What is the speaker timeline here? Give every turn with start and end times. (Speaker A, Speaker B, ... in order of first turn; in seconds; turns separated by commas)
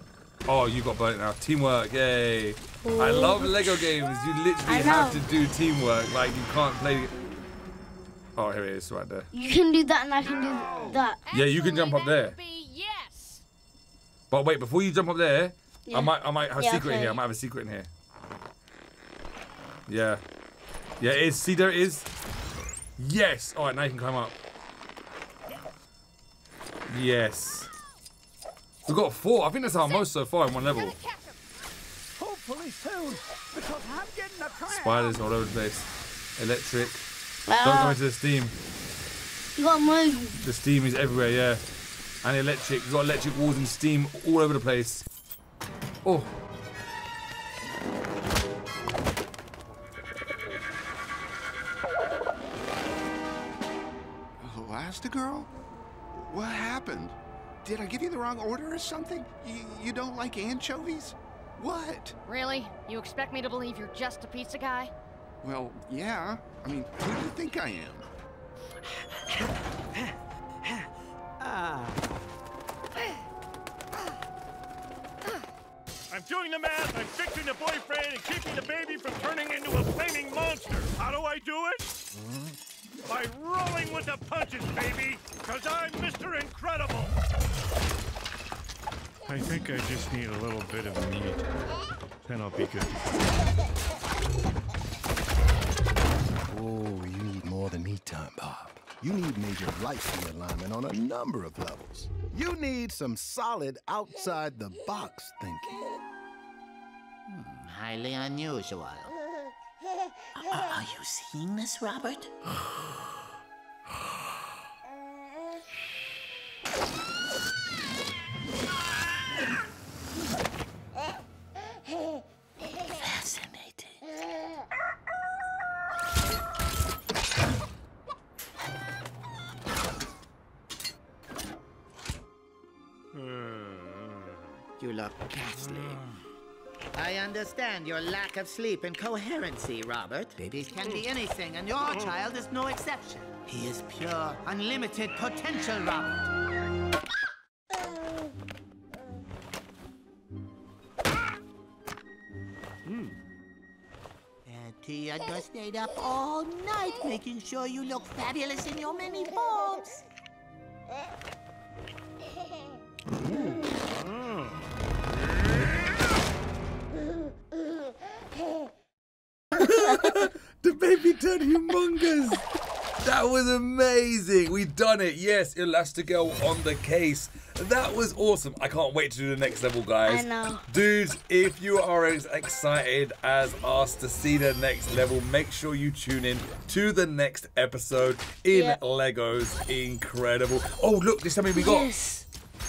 Speaker A: 0.5-7.2, Speaker B: 2.8-3.8, Speaker B: 4.6-5.2, Speaker A: 8.3-9.3, Speaker B: 9.3-11.2, Speaker C: 11.2-13.4, Speaker A: 11.3-12.3, Speaker A: 14.3-17.9, Speaker B: 15.9-17.2, Speaker A: 19.9-20.2, Speaker A: 21.0-22.1, Speaker A: 23.0-24.4, Speaker A: 26.9-27.7, Speaker A: 28.9-30.9, Speaker C: 29.6-31.4, Speaker D: 32.2-35.4, Speaker A: 34.7-37.0, Speaker B: 37.5-38.0, Speaker A: 37.6-38.5, Speaker B: 39.5-40.4, Speaker A: 40.4-41.6, Speaker A: 42.2-45.0, Speaker A: 46.0-46.3, Speaker E: 54.4-55.5, Speaker E: 56.3-62.1, Speaker C: 62.3-64.9, Speaker E: 65.4-68.1, Speaker D: 71.4-72.0, Speaker F: 76.1-81.9, Speaker F: 83.0-87.1, Speaker F: 89.3-91.5, Speaker F: 92.2-93.2, Speaker G: 96.5-105.8, Speaker H: 107.3-109.1, Speaker H: 110.5-112.3, Speaker H: 134.8-135.9, Speaker H: 136.9-146.2, Speaker H: 154.4-159.9, Speaker A: 169.5-172.4, Speaker A: 173.0-191.9, Speaker B: 180.0-180.6, Speaker B: 188.5-188.8, Speaker B: 191.5-192.2